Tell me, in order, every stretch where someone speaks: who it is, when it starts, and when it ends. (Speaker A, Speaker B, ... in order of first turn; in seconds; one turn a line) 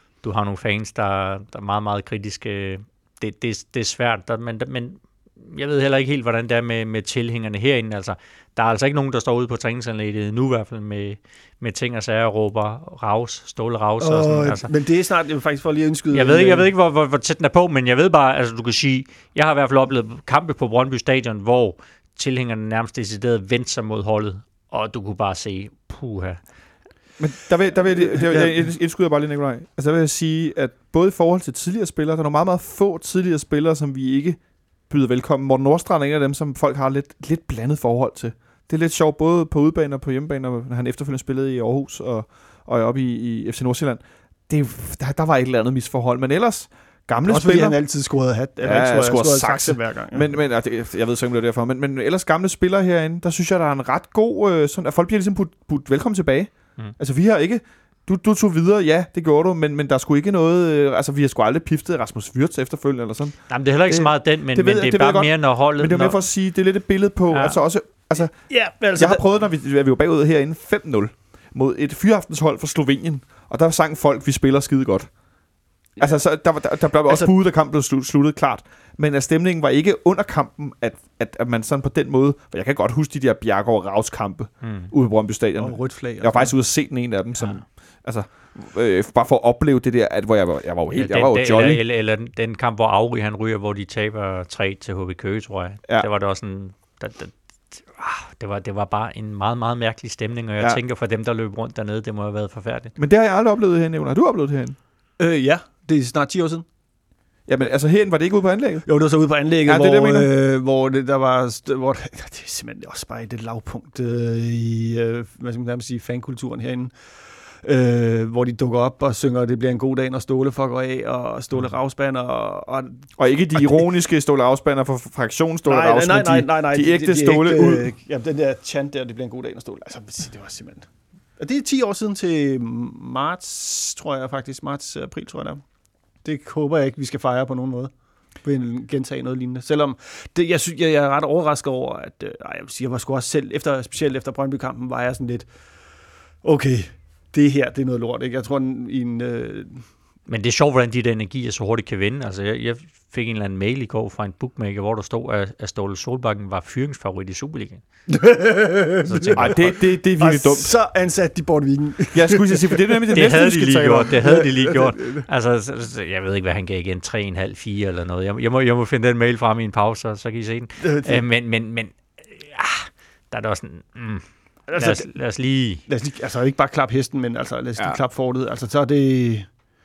Speaker A: 0.2-14.7
Speaker B: 14.0-16.7
Speaker A: 16.1-26.4
Speaker C: 27.2-47.8
Speaker B: 28.1-28.6
Speaker B: 47.2-50.4
Speaker C: 48.6-75.2
Speaker A: 63.5-66.2
Speaker A: 67.3-67.6
Speaker B: 68.3-69.2
Speaker C: 76.0-91.8
Speaker B: 76.0-76.4
Speaker B: 77.0-77.3
Speaker A: 84.6-84.9
Speaker B: 85.6-86.6
Speaker A: 90.9-103.0
Speaker C: 103.0-104.8
Speaker B: 105.2-106.7
Speaker C: 107.5-108.9
Speaker B: 108.9-123.8
Speaker C: 109.7-110.3
Speaker C: 123.2-127.9
Speaker B: 125.7-135.6
Speaker B: 136.2-149.8
Speaker A: 150.3-157.8
Speaker B: 158.1-165.3
Speaker A: 159.0-159.8
Speaker C: 159.3-160.7
Speaker C: 162.1-164.1
Speaker A: 163.1-175.8
Speaker B: 170.8-171.2
Speaker B: 174.7-175.2
Speaker B: 175.9-179.5